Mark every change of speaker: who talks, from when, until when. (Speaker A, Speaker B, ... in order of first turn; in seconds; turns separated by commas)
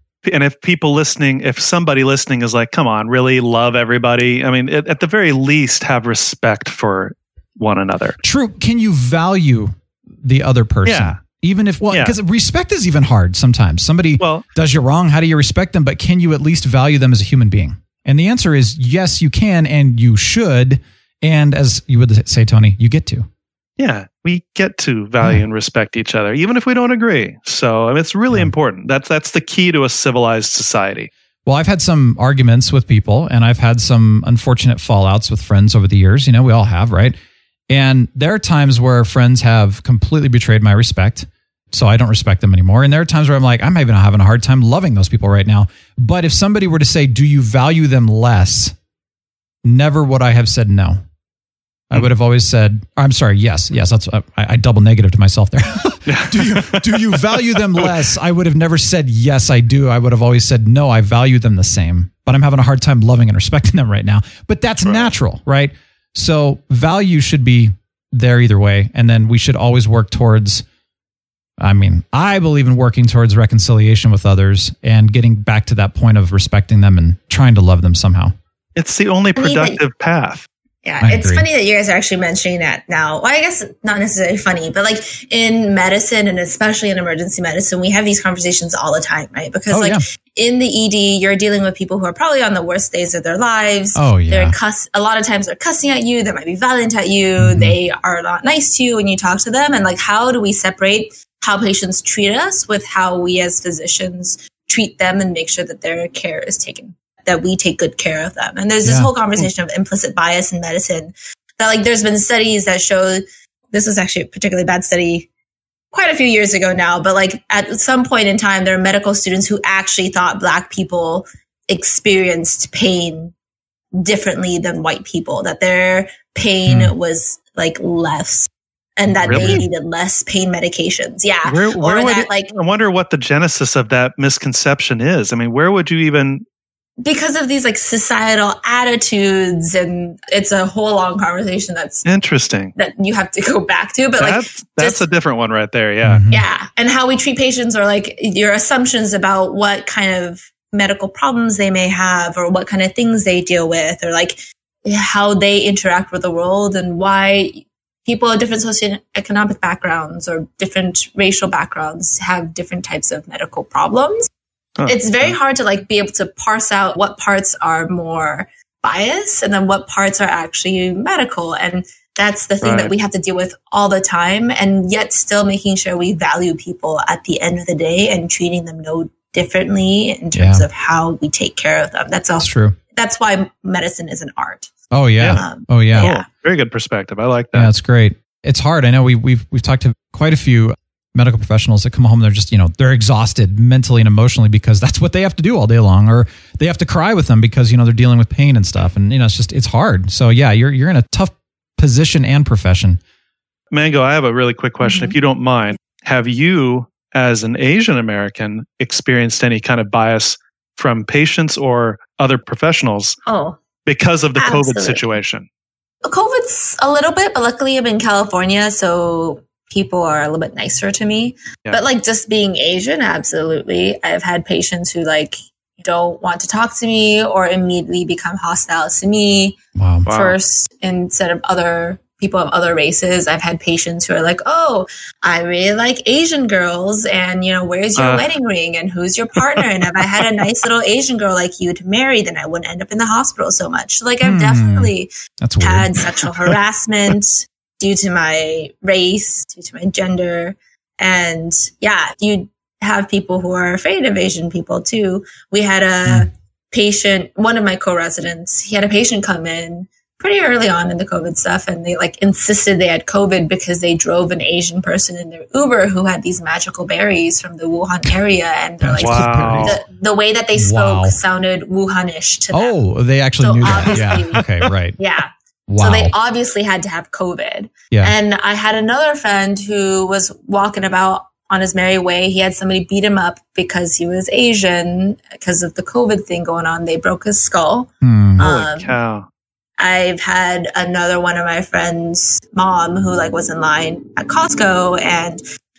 Speaker A: 0.2-8.2, Speaker B: 8.2-23.3, Speaker A: 10.8-11.2, Speaker A: 14.2-14.4, Speaker A: 23.8-31.1, Speaker B: 31.4-37.1, Speaker B: 37.7-48.7, Speaker B: 49.6-51.0, Speaker B: 51.9-70.6, Speaker A: 56.0-57.9, Speaker A: 64.8-65.1, Speaker B: 71.6-78.3, Speaker A: 78.8-80.5, Speaker C: 79.4-79.8, Speaker C: 80.8-115.3, Speaker B: 81.0-81.5, Speaker B: 89.7-90.0, Speaker B: 93.9-94.5, Speaker B: 97.4-97.7, Speaker B: 108.8-109.1, Speaker C: 115.9-123.3, Speaker C: 123.9-132.5, Speaker B: 126.7-126.9, Speaker B: 129.2-129.6, Speaker A: 129.2-129.6, Speaker A: 131.4-136.4, Speaker C: 137.0-142.0, Speaker A: 142.1-142.7, Speaker C: 142.7-145.0, Speaker A: 144.2-146.2, Speaker B: 146.0-146.4, Speaker C: 146.3-164.2, Speaker A: 164.8-165.3, Speaker C: 164.8-184.7, Speaker A: 172.6-172.9, Speaker B: 180.3-180.6, Speaker B: 182.4-182.8, Speaker B: 184.9-186.1, Speaker C: 185.3-186.2, Speaker A: 186.0-187.7, Speaker B: 187.5-203.0, Speaker A: 203.7-213.2, Speaker C: 204.8-205.1, Speaker C: 213.2-213.6, Speaker A: 213.8-215.4, Speaker C: 214.3-215.1, Speaker C: 216.0-229.6, Speaker B: 229.8-230.1, Speaker A: 230.1-230.3, Speaker C: 230.1-245.1, Speaker A: 238.0-238.2, Speaker B: 244.2-246.0, Speaker C: 245.6-272.8, Speaker B: 268.8-269.8, Speaker A: 269.0-269.7, Speaker B: 270.6-271.2, Speaker B: 272.5-275.0, Speaker C: 273.4-274.4, Speaker C: 275.0-288.9, Speaker B: 275.7-276.1, Speaker B: 288.0-288.4, Speaker A: 288.4-289.3, Speaker C: 289.8-295.4